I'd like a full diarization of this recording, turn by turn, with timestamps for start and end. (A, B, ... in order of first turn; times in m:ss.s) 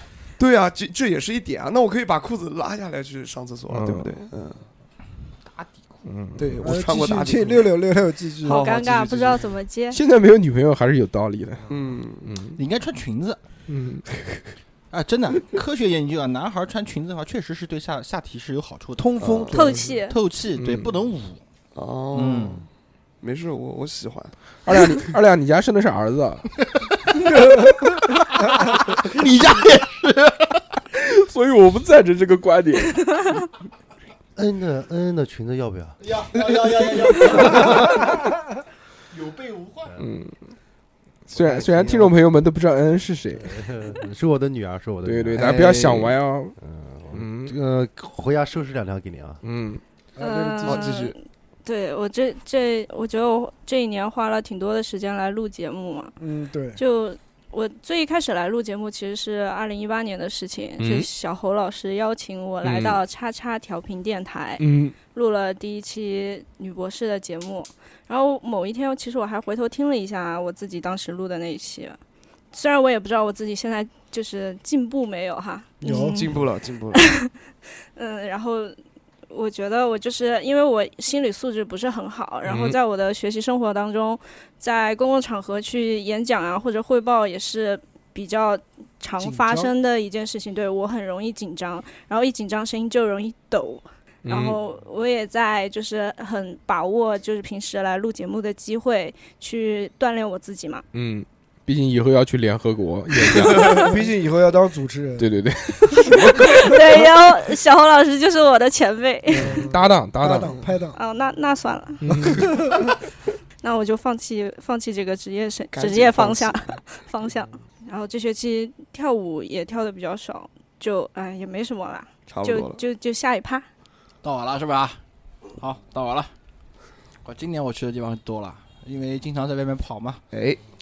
0:00.4-0:04.6 A
0:03.7-0:04.1 B
0:06.1-0:06.7 B
0:06.4-0:07.8 A
0:06.6-0:08.6 C
0:08.4-0:09.5 A
0:08.4-0:10.0 D
0:09.9-0:11.7 B
0:11.7-0:12.3 A
0:12.2-0:12.6 B
0:12.6-0:13.4 E
0:13.7-0:14.0 B
0:14.9-0:19.2 E
0:19.0-0:20.0 C
0:19.2-0:19.6 A
0:19.5-0:20.2 D
0:20.1-0:21.4 E
0:20.6-0:21.0 B
0:21.8-0:22.6 A
0:22.1-0:22.6 E
0:23.2-0:24.4 A
0:24.7-0:26.4 B
0:28.9-0:30.6 E
0:30.9-0:33.1 B
0:34.4-0:36.0 F
0:36.2-0:37.8 E
0:40.0-0:40.6 B
0:41.3-0:43.6 B
0:41.4-0:42.1 F
0:43.4-0:45.6 F
0:45.0-0:46.6 B
0:45.4-0:46.1 A
0:46.6-0:49.4 F
0:47.1-0:47.6 B
0:49.4-0:49.8 B
0:50.2-0:51.0 C
0:50.2-0:56.1 D
0:50.6-0:51.2 A
0:56.2-0:56.8 C
0:56.8-1:12.0 D
1:00.8-1:01.1 B
1:02.6-1:03.0 B
1:04.6-1:05.0 B
1:12.5-1:16.3 D
1:15.8-1:16.2 C
1:15.9-1:17.1 A
1:17.0-1:17.3 D
1:18.0-1:18.8 D
1:19.3-1:40.8 D
1:22.4-1:22.8 B
1:29.2-1:29.7 C
1:34.2-1:34.6 B
1:40.9-1:44.0 B
1:43.4-1:43.8 D
1:43.7-1:45.3 C
1:45.2-1:46.4 B
1:46.0-1:49.6 D
1:49.3-1:51.0 C
1:49.6-1:50.6 B
1:51.0-1:52.4 D
1:52.0-1:52.5 B
1:52.2-1:52.8 C
1:53.6-2:03.6 D
1:55.7-1:56.8 A
2:02.3-2:02.8 A
2:04.2-2:05.0 E
2:05.6-2:06.3 E
2:07.2-2:10.2 E
2:10.3-2:10.6 A